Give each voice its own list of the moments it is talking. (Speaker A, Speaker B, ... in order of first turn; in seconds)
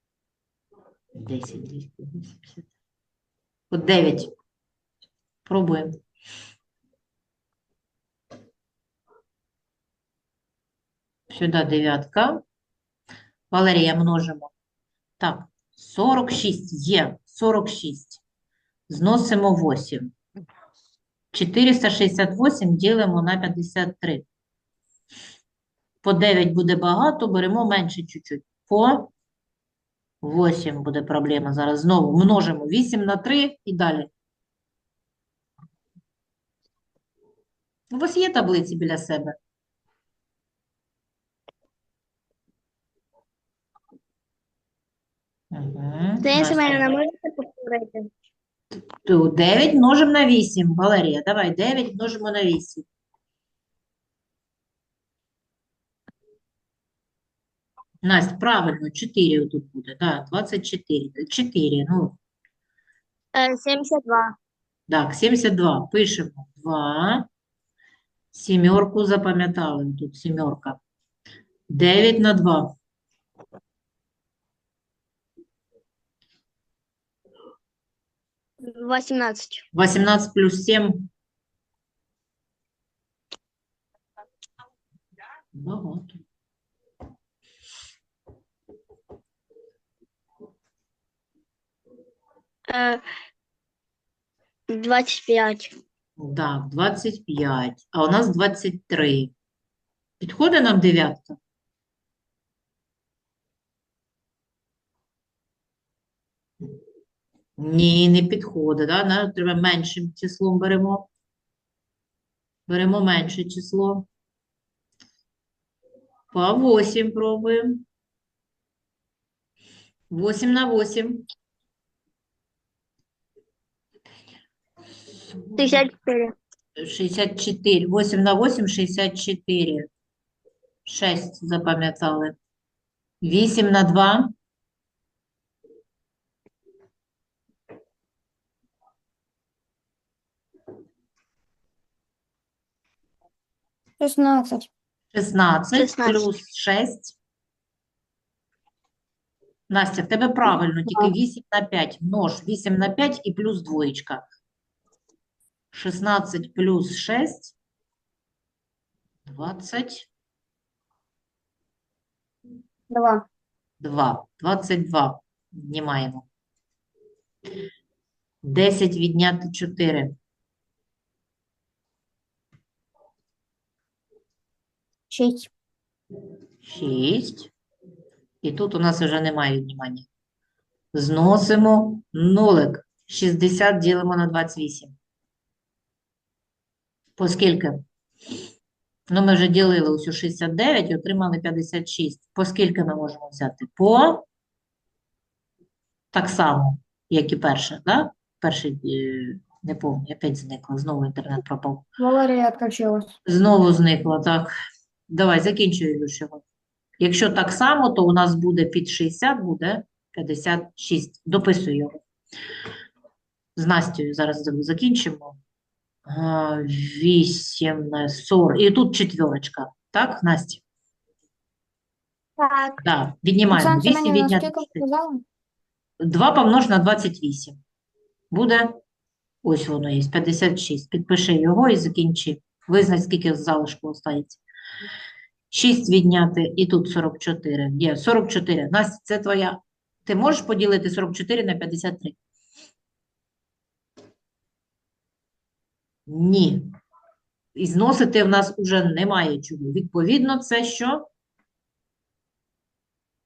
Speaker A: 1.1-2.7, 3.7-4.3, 5.5-6.0, 11.3-12.4, 13.5-14.5, 15.2-18.2, 18.9-20.1, 21.3-24.3, 26.0-29.1, 30.2-34.1, 37.9-39.4, 45.5-47.0, 49.0-52.9, 58.0-62.2, 64.9-67.3, 68.3-70.8, 71.7-72.7, 79.7-81.1, 85.5-86.2, 96.2-99.3, 100.2-101.4, 107.6-111.1, 112.7-114.1, 116.3-117.8, 120.1-121.2, 125.4-125.9, 126.8-129.9, 130.9-132.3, 133.2-134.3, 145.1-147.2, 149.7-154.2, 155.7-157.5, 159.3-160.1, 163.8-166.3, 168.4-170.2, 176.6-177.5, 178.4-180.1, 180.9-184.9, 187.2-187.8, 189.1-194.2, 196.1-201.8, 203.3-204.5, 205.1-206.4, 207.0-212.0, 213.6-215.4, 216.1-220.6, 222.8-224.8, 226.0-227.6, 228.3-228.8, 229.4-234.4, 235.5-242.2, 246.1-246.6, 247.6-251.1
Speaker B: 46.2-48.1, 63.4-64.3, 78.6-79.7, 92.7-93.0, 94.7-95.7, 125.6-126.3, 145.7-146.3
Speaker C: 144.0-144.7, 162.9-163.3, 175.1-175.5, 202.0-203.2, 223.5-225.2